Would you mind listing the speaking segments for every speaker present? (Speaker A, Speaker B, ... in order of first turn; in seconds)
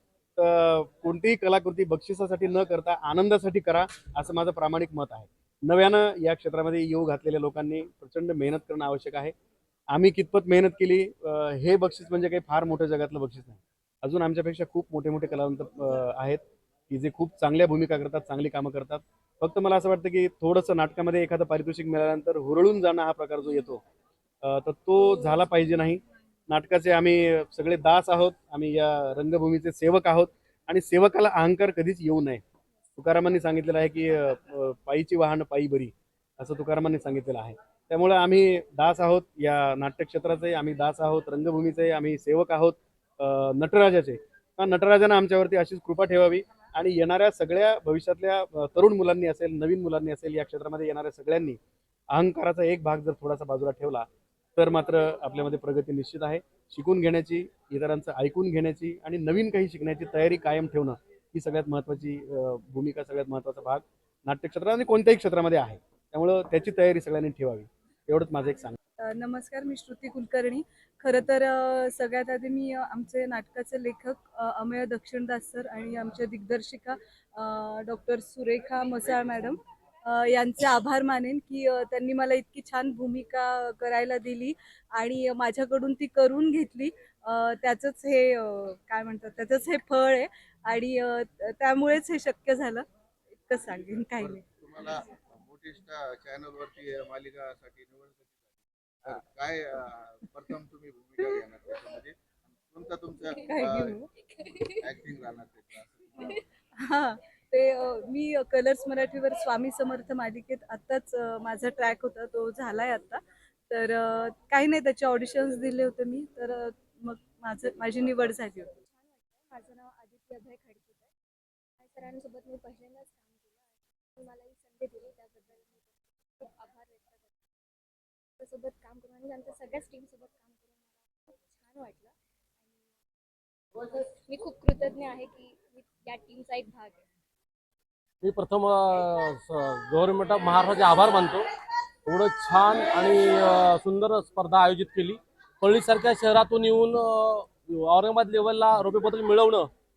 Speaker A: 0.4-9.3, 9.9-23.8, 24.4-32.4, 33.0-51.6, 52.1-54.0, 54.6-68.8
Speaker B: 69.0-92.8, 93.5-94.4, 103.4-104.0, 106.2-118.7
Speaker C: 94.2-104.0, 104.8-106.3
Speaker D: 104.5-104.8, 118.9-121.1, 121.8-127.3, 128.4-132.1, 133.8-137.0
Speaker E: 138.2-141.4, 142.1-149.7